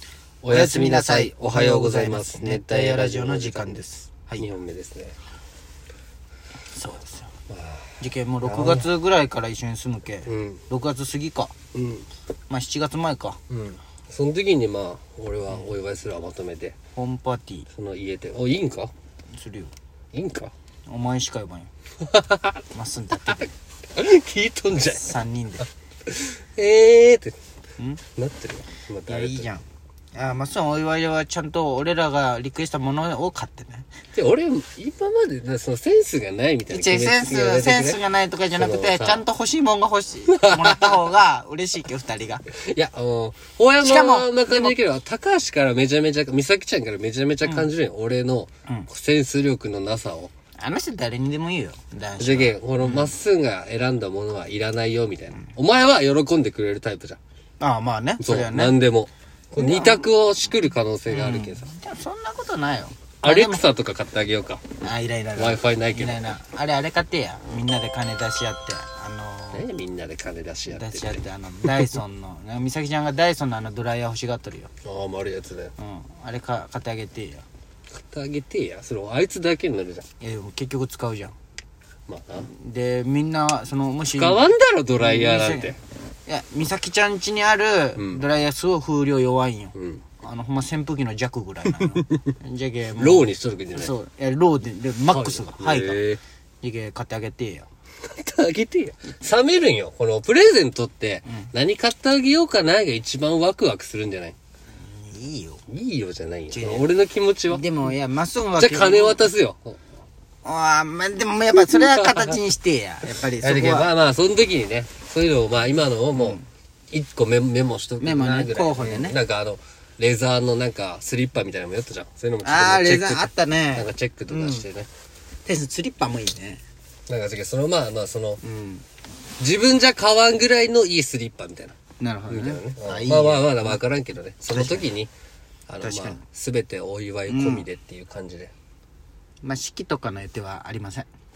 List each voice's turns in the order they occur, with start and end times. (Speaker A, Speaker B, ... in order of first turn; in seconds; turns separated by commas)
Speaker A: 0.4-3.9, Speaker B: 0.5-4.5, Speaker A: 4.4-5.2, Speaker B: 6.7-7.3, Speaker A: 7.5-8.9, Speaker B: 8.0-11.5, Speaker A: 10.2-10.6, Speaker A: 11.7-12.1, Speaker B: 12.5-13.4, Speaker A: 13.5-16.8, Speaker B: 17.0-17.7, Speaker A: 17.7-18.9, Speaker B: 19.3-19.7, Speaker A: 20.1-20.5, Speaker B: 20.9-21.7, Speaker A: 22.0-22.6, Speaker B: 22.7-23.5, Speaker A: 23.9-25.1, Speaker B: 24.8-25.7, Speaker A: 26.1-27.4, Speaker A: 28.1-29.5, Speaker B: 29.1-33.9, Speaker A: 34.1-38.0, Speaker B: 36.7-42.5, Speaker A: 38.6-39.2, Speaker A: 40.3-41.0, Speaker A: 42.5-50.3, Speaker B: 43.8-44.8, Speaker B: 50.6-53.1, Speaker A: 52.2-57.2, Speaker B: 57.6-58.8, Speaker A: 58.2-61.7, Speaker B: 59.6-60.0, Speaker B: 61.1-63.6, Speaker A: 63.2-64.6, Speaker B: 64.8-69.7, Speaker A: 65.3-66.3, Speaker A: 69.5-71.9, Speaker B: 70.7-74.7, Speaker A: 74.8-75.7, Speaker B: 75.8-77.4, Speaker A: 77.9-80.0, Speaker B: 80.2-81.3, Speaker A: 82.1-82.5, Speaker B: 82.4-96.0, Speaker A: 84.1-85.8, Speaker A: 88.0-88.2, Speaker A: 89.7-90.0, Speaker A: 91.8-92.3, Speaker A: 93.0-93.9, Speaker A: 95.1-96.2, Speaker B: 96.6-97.7, Speaker A: 98.0-104.3, Speaker B: 104.7-105.6, Speaker A: 105.7-107.8, Speaker B: 106.5-106.9, Speaker B: 107.5-109.2, Speaker A: 108.6-109.8, Speaker B: 110.4-113.9, Speaker A: 111.5-112.4, Speaker A: 113.2-116.4, Speaker B: 116.2-116.4, Speaker A: 116.9-124.9, Speaker B: 118.0-119.2, Speaker B: 122.4-124.6, Speaker B: 125.4-126.6, Speaker A: 127.1-128.4, Speaker B: 128.4-128.8, Speaker A: 129.4-131.8, Speaker B: 132.0-133.8, Speaker A: 132.3-135.1, Speaker B: 134.5-134.9, Speaker A: 135.7-138.5, Speaker B: 135.8-136.2, Speaker B: 137.3-137.7, Speaker B: 139.4-141.1